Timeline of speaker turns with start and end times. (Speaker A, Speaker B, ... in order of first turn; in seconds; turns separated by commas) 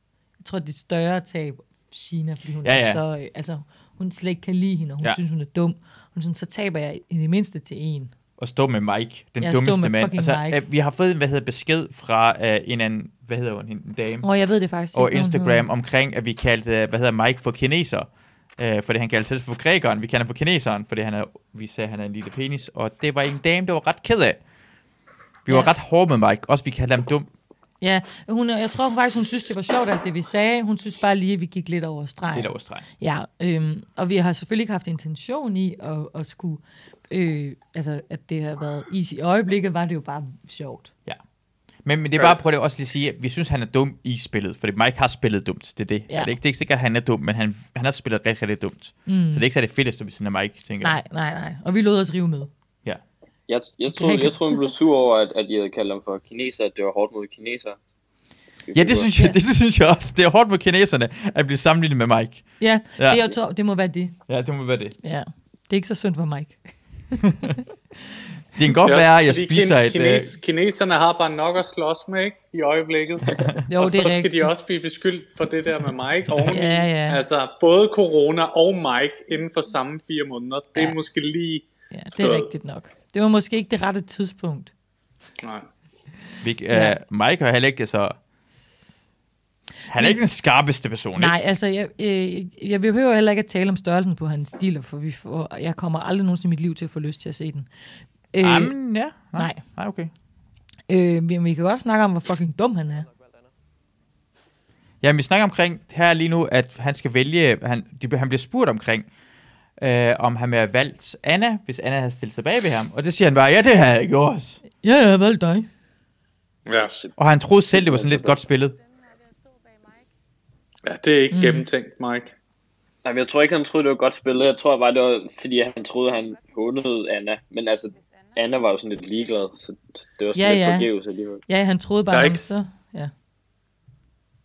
Speaker A: 0.4-8.1, Speaker B: 2.6-3.0, Speaker B: 8.4-14.2, Speaker A: 9.4-10.6, Speaker A: 14.2-15.7, Speaker B: 14.9-24.4, Speaker B: 25.4-27.3, Speaker A: 25.5-25.7, Speaker A: 27.8-40.9, Speaker B: 32.3-32.8, Speaker B: 41.8-51.0, Speaker A: 49.1-49.4, Speaker A: 50.8-52.5, Speaker C: 53.5-57.8, Speaker A: 53.9-54.7, Speaker C: 58.7-59.1, Speaker B: 58.7-63.2, Speaker A: 62.6-64.2, Speaker B: 64.3-65.0, Speaker A: 65.0-66.6, Speaker B: 67.3-67.5, Speaker B: 68.5-70.3, Speaker D: 68.8-81.7, Speaker A: 73.7-74.5, Speaker A: 76.4-77.2, Speaker A: 81.9-84.7, Speaker D: 82.2-82.5, Speaker D: 85.4-85.7, Speaker B: 86.4-88.2, Speaker A: 86.7-87.0, Speaker B: 89.9-91.4, Speaker A: 91.2-97.7, Speaker A: 98.3-98.8, Speaker B: 98.4-100.1, Speaker A: 99.3-99.6, Speaker A: 100.9-103.1, Speaker B: 105.0-109.1, Speaker B: 109.8-114.6, Speaker A: 114.8-115.7, Speaker D: 116.7-116.9, Speaker C: 116.7-117.1, Speaker B: 117.2-118.8, Speaker C: 117.7-118.4, Speaker D: 120.8-122.3, Speaker A: 121.3-121.7, Speaker C: 123.0-131.4, Speaker A: 130.3-130.9, Speaker A: 131.5-133.1, Speaker D: 132.1-132.6